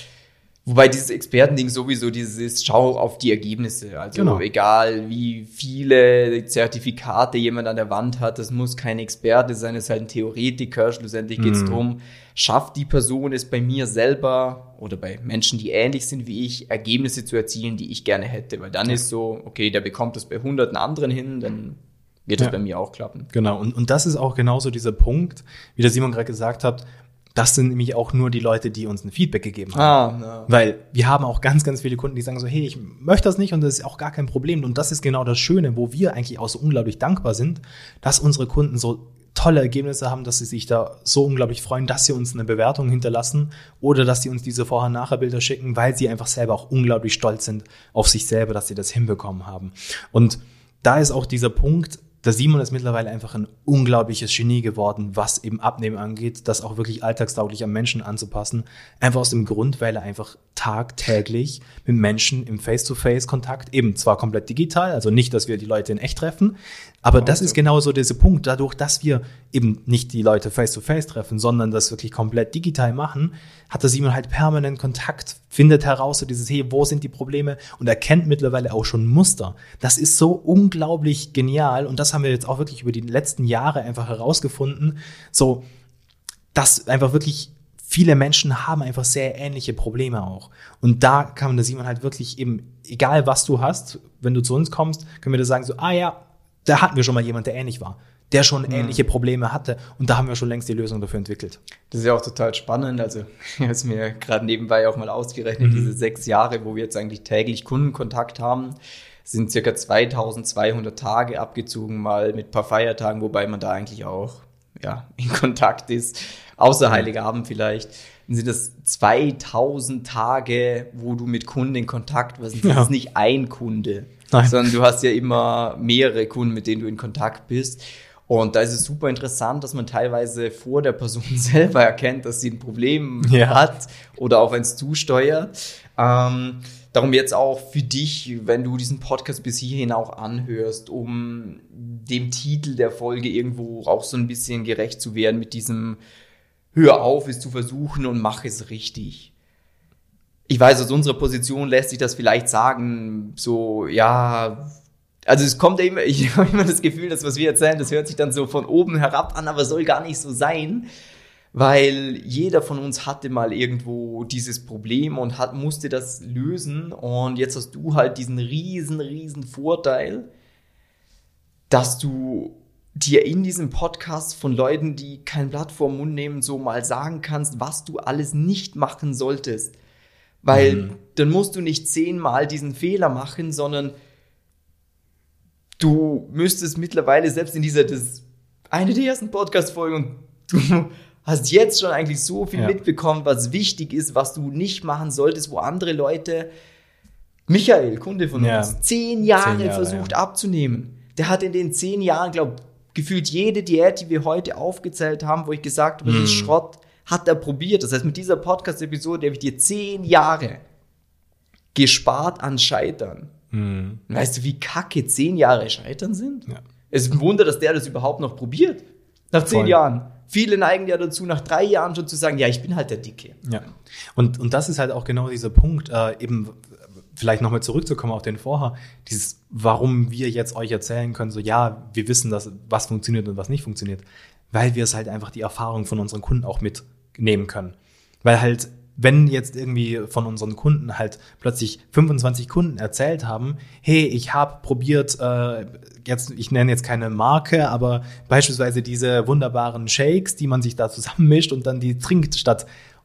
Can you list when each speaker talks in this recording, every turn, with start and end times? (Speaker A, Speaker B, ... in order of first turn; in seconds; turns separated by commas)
Speaker A: 0.7-23.3, Speaker B: 4.2-4.4, Speaker B: 11.4-11.8, Speaker B: 23.3-85.6, Speaker A: 29.7-30.5, Speaker A: 67.2-67.6, Speaker B: 86.5-101.6, Speaker A: 98.7-99.1, Speaker A: 101.9-146.0, Speaker B: 105.6-106.0, Speaker B: 122.6-122.9, Speaker B: 124.3-124.6, Speaker B: 133.2-133.6, Speaker A: 146.7-149.3, Speaker A: 150.5-154.7, Speaker A: 155.3-160.9, Speaker A: 161.5-170.3, Speaker A: 171.7-179.7, Speaker A: 180.4-183.9, Speaker B: 180.5-180.9, Speaker A: 185.8-196.5, Speaker A: 197.5-210.6, Speaker B: 198.3-198.8, Speaker B: 199.4-200.2, Speaker B: 206.0-206.5, Speaker A: 211.7-213.3, Speaker B: 213.5-214.0, Speaker A: 214.1-223.4, Speaker B: 219.4-219.8, Speaker B: 223.4-252.7